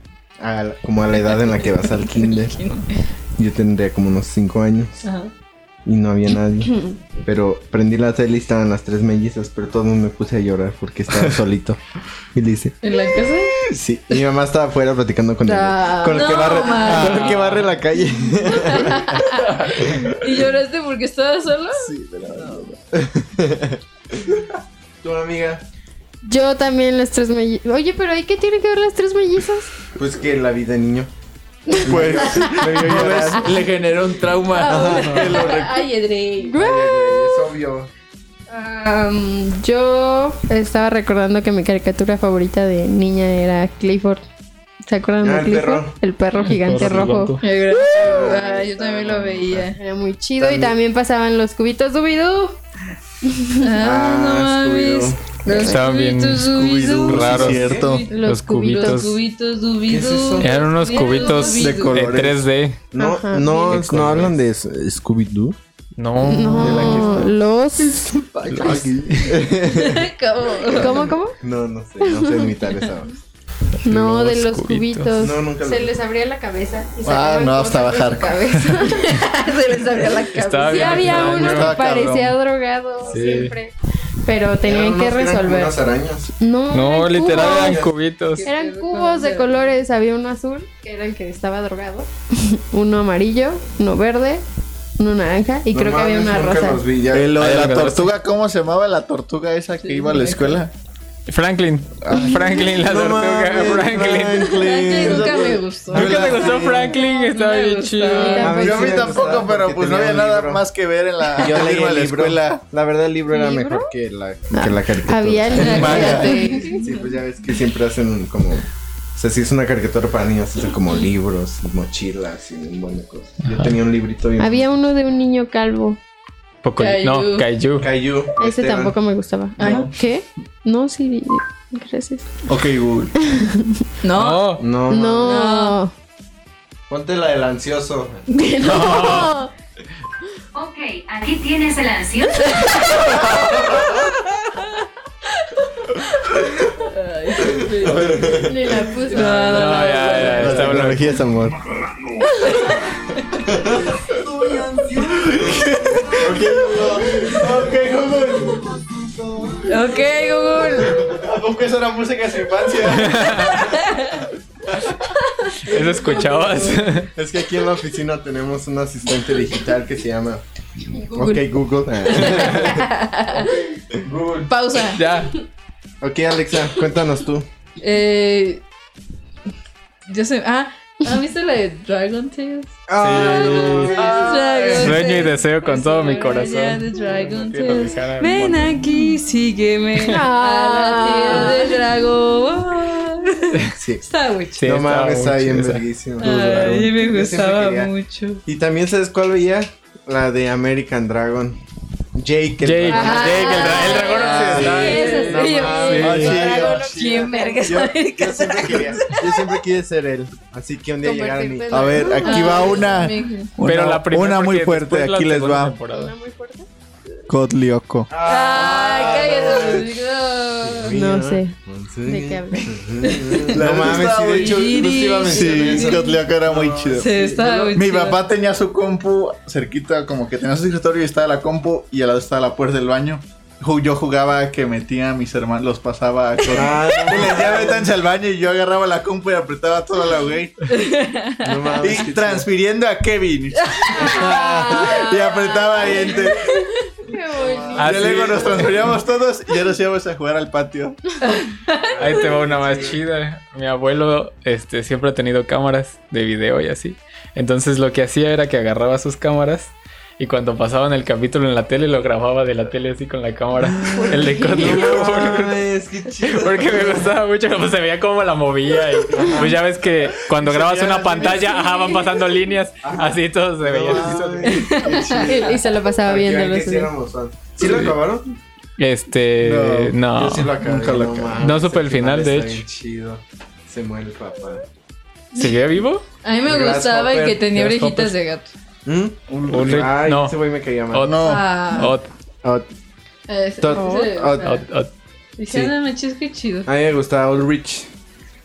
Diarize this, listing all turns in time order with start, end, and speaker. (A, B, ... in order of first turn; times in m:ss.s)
0:00.4-0:02.6 A
0:01.5-0:03.0 B
0:03.4-0:05.0 A
0:05.0-0:05.3 B
0:05.8-0:11.8 A
0:12.3-0:12.8 A
0:12.8-0:13.6 B
0:13.7-0:19.3 A
0:15.5-0:17.5 B
0:15.9-0:16.6 C
0:16.9-0:17.6 D
0:17.0-0:17.6 E
0:18.4-0:22.7 B
0:19.7-0:20.0 D
0:21.7-0:22.8 D
0:22.9-0:24.4 A
0:25.0-0:25.6 A
0:26.2-0:29.8 C
0:29.9-0:31.1 A
0:31.7-0:33.5 C
0:31.8-0:33.5 A
0:31.8-0:35.8 D
0:34.5-0:36.6 B
0:34.6-0:35.5 C
0:34.7-0:35.3 A
0:36.4-0:37.5 C
0:36.6-0:37.9 A
0:38.5-0:44.2 C
0:44.8-0:48.7 C
0:45.2-0:46.0 A
0:46.4-0:47.5 E
0:47.4-0:49.8 B
0:47.9-0:49.7 A
0:49.7-0:52.6 C
0:50.4-0:50.8 A
0:53.2-0:53.7 C
0:53.6-1:02.0 B
0:53.8-0:55.4 A
0:55.4-0:55.8 C
0:55.5-0:56.5 E
0:56.4-0:58.1 D
0:57.1-0:59.2 E
0:57.1-0:57.9 A
0:58.1-0:59.0 C
0:59.9-1:00.7 A
1:00.4-1:02.8 E
1:00.8-1:01.5 C
1:01.5-1:02.4 D
1:02.0-1:05.6 A
1:03.0-1:04.0 C
1:03.9-1:04.3 E
1:06.0-1:07.2 E
1:06.2-1:08.7 C
1:06.6-1:07.3 D
1:06.7-1:07.2 A
1:08.3-1:09.4 D
1:08.5-1:09.2 E
1:08.6-1:10.1 A
1:09.6-1:11.1 B
1:10.7-1:13.2 A
1:10.7-1:11.4 C
1:12.0-1:12.6 C
1:13.8-1:15.1 E
1:13.8-1:19.2 C
1:15.2-1:15.9 A
1:17.0-1:18.9 D
1:18.9-1:21.5 B
1:20.3-1:21.8 E
1:20.6-1:25.8 C
1:21.0-1:22.4 D
1:23.1-1:23.5 E
1:24.6-1:26.3 A
1:26.4-1:27.8 C
1:26.7-1:28.4 E
1:27.3-1:27.9 A
1:28.4-1:29.7 B
1:28.4-1:34.4 C
1:35.0-1:36.8 C
1:35.7-1:37.3 A
1:37.1-1:40.7 D
1:37.4-1:38.1 E
1:39.8-1:40.6 B
1:41.3-1:44.5 E
1:42.6-1:47.0 A
1:44.3-1:48.7 B
1:45.1-1:46.8 D
1:45.9-1:48.6 E
1:48.1-1:49.3 C
1:48.4-1:50.6 A
1:48.5-1:52.6 D
1:51.3-2:04.6 A
1:53.3-1:53.9 C
1:54.5-1:56.8 C
1:55.6-1:57.0 B
1:55.6-1:56.6 D
2:04.4-2:06.0 C
2:06.6-2:07.9 E
2:06.8-2:07.5 B
2:07.8-2:09.0 A
2:08.4-2:12.4 C
2:09.6-2:09.9 B
2:09.6-2:09.9 D
2:12.5-2:13.1 D
2:13.2-2:13.8 C
2:14.0-2:14.6 B
2:14.1-2:14.6 E
2:14.6-2:15.4 A
2:14.9-2:15.9 C
2:15.2-2:15.8 B
2:16.9-2:18.2 A
2:18.3-2:19.5 C
2:18.6-2:19.3 E
2:20.5-2:22.8 F
2:23.3-2:23.8 A
2:26.8-2:28.4 B
2:27.4-2:28.8 A
2:28.3-2:29.8 C
2:29.0-2:30.7 B
2:29.1-2:31.1 E
2:30.1-2:31.6 A
2:30.2-2:31.0 D
2:33.5-2:40.0 A
2:34.0-2:39.6 D
2:39.6-2:41.2 B
2:40.9-2:43.8 D
2:42.9-2:43.7 E
2:43.6-2:44.2 B
2:45.6-2:47.1 E
2:46.0-2:46.6 B
2:47.2-2:50.4 A
2:50.9-2:51.4 C
2:51.1-2:54.5 A
2:52.0-2:53.6 B
2:54.4-2:55.1 B
2:54.9-2:55.3 E
2:56.0-2:57.5 A
2:57.8-2:58.6 B
3:00.1-3:02.8 B
3:02.9-3:04.8 A
3:03.0-3:04.0 E
3:03.3-3:14.6 B
3:04.0-3:05.1 D
3:04.8-3:08.8 E
3:10.0-3:11.8 C
3:13.7-3:14.1 A
3:14.6-3:15.8 E
3:14.6-3:17.9 A
3:16.2-3:18.4 B
3:16.4-3:16.8 D
3:18.4-3:21.6 A
3:22.1-3:32.9 A
3:22.6-3:26.0 E
3:22.9-3:27.9 C
3:22.9-3:29.4 B
3:24.3-3:24.9 D
3:26.0-3:27.0 D
3:31.0-3:33.0 C
3:31.7-3:35.8 D
3:32.2-3:33.5 B
3:33.6-3:36.1 E
3:35.9-3:36.7 C
3:37.3-3:38.1 D
3:38.1-3:39.9 A
3:38.2-3:41.0 B
3:40.6-3:47.8 A
3:40.9-3:42.8 C
3:43.0-3:46.2 B
3:43.5-3:47.1 D
3:46.9-3:48.2 B
3:47.7-4:00.7 D
3:56.5-3:57.8 A
4:00.7-4:01.7 B
4:01.4-4:02.5 A
4:01.8-4:06.6 D
4:03.6-4:06.7 B
4:03.9-4:08.7 C
4:07.5-4:11.0 D
4:07.7-4:08.7 E
4:11.2-4:12.3 B
4:11.9-4:13.0 A
4:12.0-4:25.6 E
4:23.9-4:27.1 A
4:24.0-4:24.8 C
4:26.2-4:34.6 E
4:29.1-4:29.5 A
4:30.3-4:31.7 D
4:32.8-4:35.3 A
4:33.9-4:34.2 D
4:34.4-4:35.6 B
4:34.7-4:35.6 D
4:34.9-4:36.9 C
4:36.0-4:38.2 A
4:37.6-4:38.0 E
4:38.8-4:40.5 E
4:39.4-4:40.0 D
4:40.1-4:44.6 A
4:40.6-4:41.5 D
4:41.4-4:42.6 E
4:45.3-4:46.0 E
4:46.2-4:48.5 B
4:46.4-4:47.4 A
4:47.5-4:48.1 E
4:48.8-4:51.2 A
4:49.3-4:49.9 D
4:49.5-4:50.4 E
4:50.9-4:52.1 E
4:51.0-4:51.4 D
4:51.2-4:52.0 B
4:52.4-4:52.7 A
4:53.3-4:54.6 B
4:53.6-4:54.5 A
4:53.7-4:54.1 C
4:54.4-4:54.9 E
4:55.4-4:56.7 B
4:55.5-4:55.7 A
4:56.7-4:57.9 A